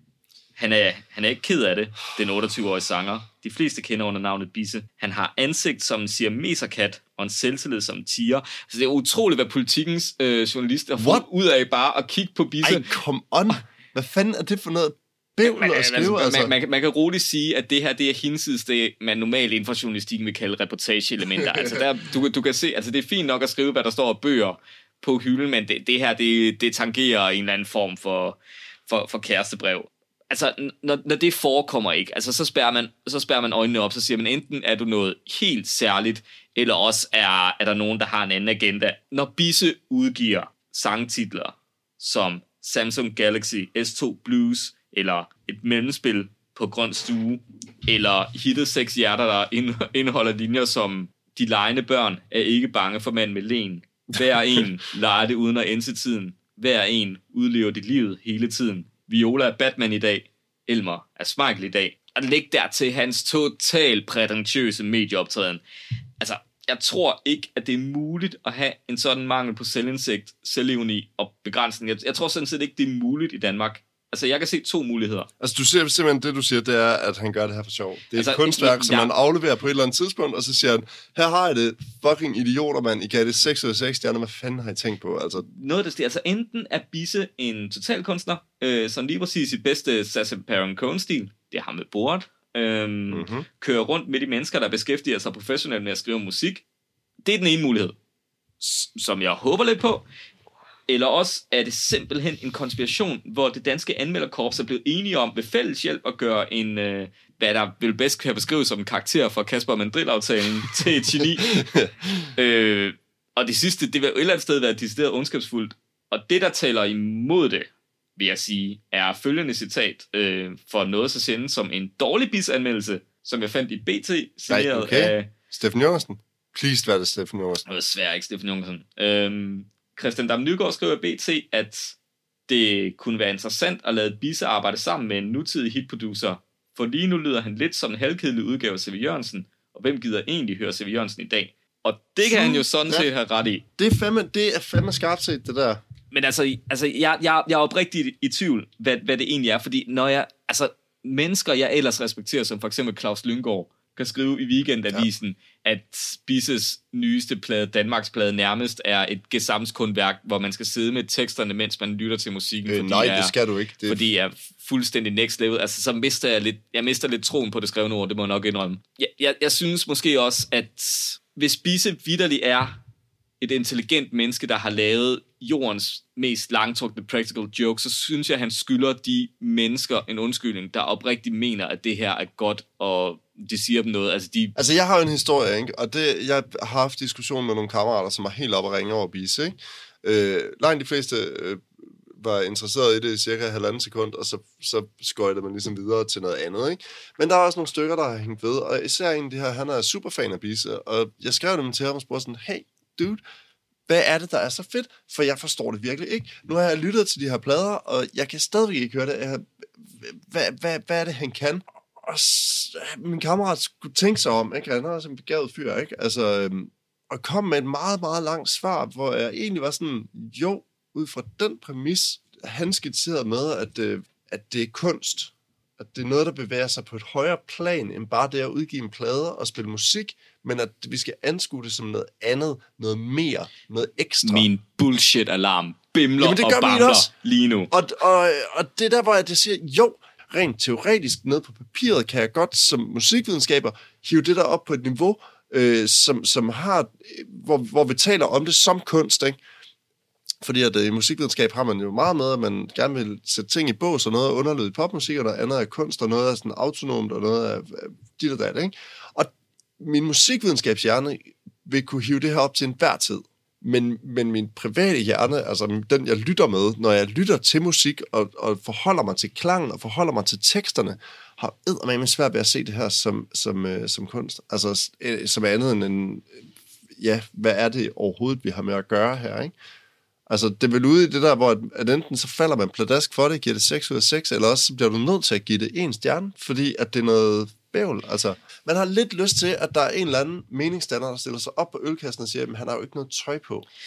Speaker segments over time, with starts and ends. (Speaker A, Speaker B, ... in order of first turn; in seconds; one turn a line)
Speaker A: 0.6-12.9
Speaker B: 11.0-11.2
Speaker B: 12.6-16.5
Speaker A: 15.4-65.6
Speaker B: 21.4-21.8
Speaker A: 66.2-75.3
Speaker B: 75.4-85.4
Speaker A: 78.1-79.1
Speaker A: 85.5-96.6
Speaker B: 93.1-93.5
Speaker A: 97.2-97.9
Speaker A: 98.6-100.0
Speaker A: 100.9-111.7
Speaker B: 111.2-112.3
Speaker A: 112.3-125.3
Speaker B: 124.5-127.6
Speaker A: 127.7-132.0
Speaker A: 132.5-143.6
Speaker B: 142.2-143.1
Speaker B: 143.8-145.8
Speaker A: 146.1-163.3
Speaker B: 162.7-164.0
Speaker A: 163.9-172.8
Speaker A: 173.4-184.5
Speaker B: 184.6-203.2
Speaker B: 203.9-234.5
Speaker A: 234.2-237.7
Speaker B: 236.2-237.1
Speaker B: 237.7-249.4
Speaker B: 250.4-279.5
Speaker B: 280.3-293.7